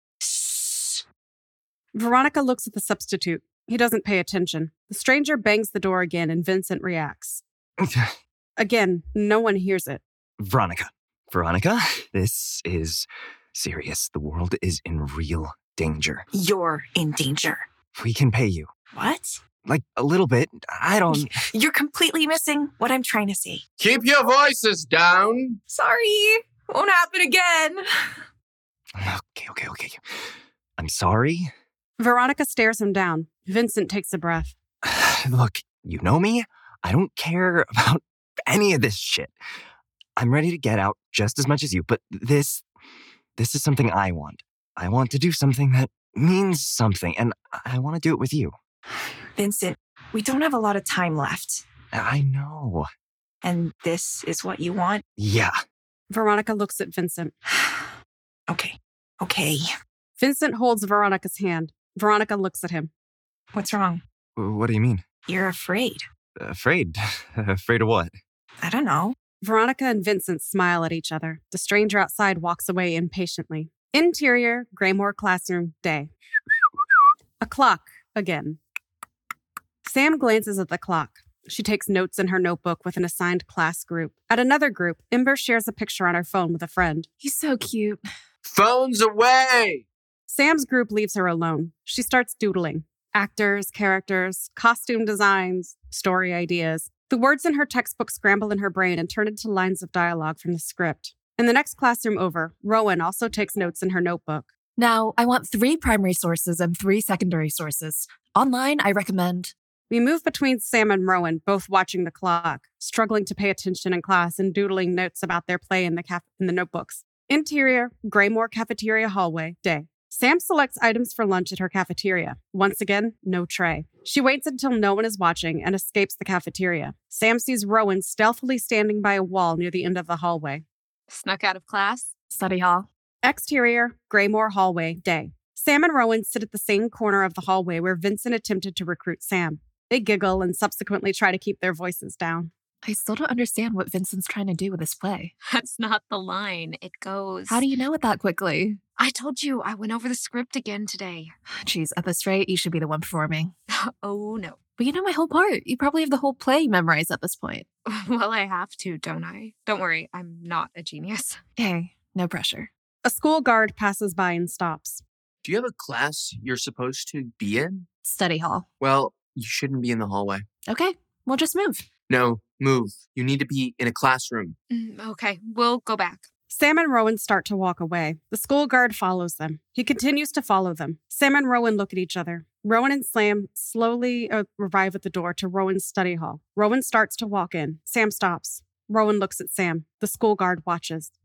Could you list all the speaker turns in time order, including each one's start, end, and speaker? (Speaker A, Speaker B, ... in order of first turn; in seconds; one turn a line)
Speaker A: 0.4-0.8
Speaker B: 1.9-7.4
Speaker A: 7.8-8.1
Speaker B: 8.6-10.0
Speaker A: 10.4-16.2
Speaker C: 16.3-17.6
Speaker A: 17.9-18.7
Speaker C: 18.9-19.4
Speaker A: 19.6-21.4
Speaker C: 21.1-23.6
Speaker D: 23.8-25.6
Speaker C: 25.7-27.8
Speaker A: 28.9-30.0
Speaker A: 30.8-31.5
Speaker B: 32.0-34.5
Speaker A: 34.8-39.3
Speaker A: 40.2-42.6
Speaker A: 43.4-48.5
Speaker C: 49.4-51.6
Speaker A: 51.9-52.9
Speaker C: 53.4-55.0
Speaker A: 55.2-55.5
Speaker B: 56.1-57.3
Speaker C: 58.5-59.7
Speaker B: 60.2-62.9
Speaker C: 63.5-64.0
Speaker A: 64.4-65.0
Speaker C: 65.3-66.0
Speaker A: 66.4-68.1
Speaker C: 68.6-69.1
Speaker B: 69.4-76.1
Speaker B: 77.4-78.6
Speaker B: 79.8-87.1
Speaker E: 87.2-88.0
Speaker D: 88.4-89.8
Speaker B: 90.3-104.5
Speaker E: 104.8-109.5
Speaker B: 109.9-130.6
Speaker F: 131.1-132.1
Speaker E: 132.3-132.9
Speaker B: 133.2-142.5
Speaker E: 142.8-145.3
Speaker F: 145.5-147.6
Speaker E: 147.5-148.8
Speaker F: 149.0-151.3
Speaker E: 151.6-153.5
Speaker F: 153.7-154.6
Speaker E: 154.8-157.7
Speaker F: 157.9-161.4
Speaker E: 161.6-162.7
Speaker B: 163.0-165.0
Speaker D: 165.4-167.9
Speaker E: 168.0-168.7
Speaker D: 168.8-170.4
Speaker E: 170.7-171.8
Speaker D: 172.1-174.5
Speaker F: 174.7-176.3
Speaker B: 176.5-191.1